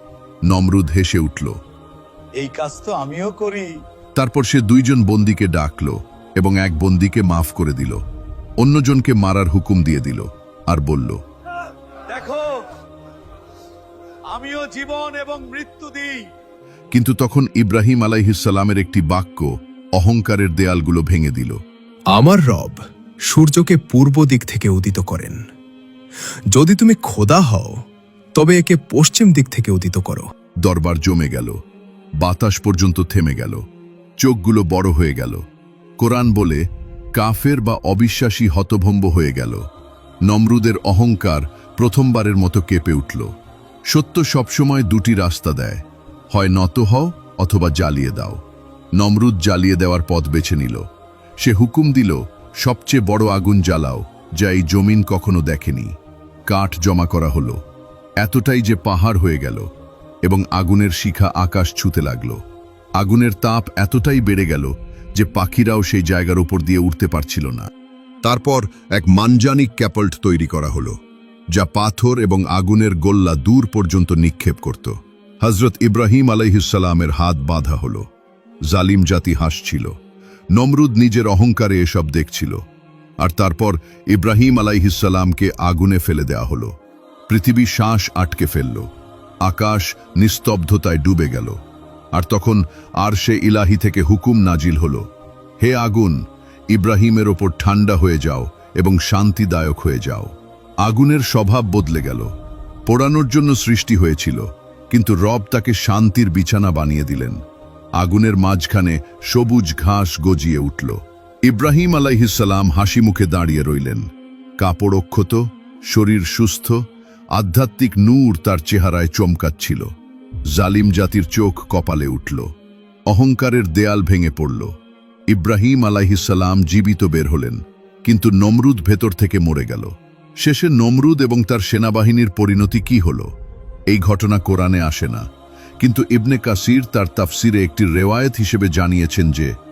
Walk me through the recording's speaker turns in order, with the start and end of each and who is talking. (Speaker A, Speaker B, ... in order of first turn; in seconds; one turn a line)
Speaker A: 0.5-1.6
Speaker B: 2.4-3.7
Speaker A: 4.2-8.0
Speaker A: 8.6-11.2
Speaker B: 12.1-12.5
Speaker B: 14.3-16.2
Speaker A: 16.9-21.6
Speaker C: 22.1-22.8
Speaker C: 23.3-25.4
Speaker C: 26.5-27.7
Speaker C: 28.3-30.3
Speaker A: 30.6-31.6
Speaker A: 32.2-33.6
Speaker A: 34.2-35.4
Speaker A: 36.0-36.6
Speaker A: 37.1-39.6
Speaker A: 40.2-43.3
Speaker A: 43.9-48.4
Speaker A: 49.0-50.8
Speaker A: 51.4-55.9
Speaker A: 56.5-57.6
Speaker A: 58.2-59.7
Speaker A: 60.2-62.4
Speaker A: 63.0-67.7
Speaker A: 68.2-71.0
Speaker A: 71.5-78.0
Speaker A: 78.7-79.9
Speaker A: 80.5-82.6
Speaker A: 83.2-86.7
Speaker A: 87.3-88.9
Speaker A: 89.4-91.6
Speaker A: 92.1-95.0
Speaker A: 95.6-96.2
Speaker A: 96.7-100.3
Speaker A: 100.8-102.3
Speaker A: 102.9-107.4
Speaker A: 108.0-114.1
Speaker A: 114.6-116.8
Speaker A: 117.3-119.9
Speaker A: 120.5-122.5
Speaker A: 123.1-124.7
Speaker A: 125.3-133.3
Speaker A: 133.9-135.2
Speaker A: 135.8-139.5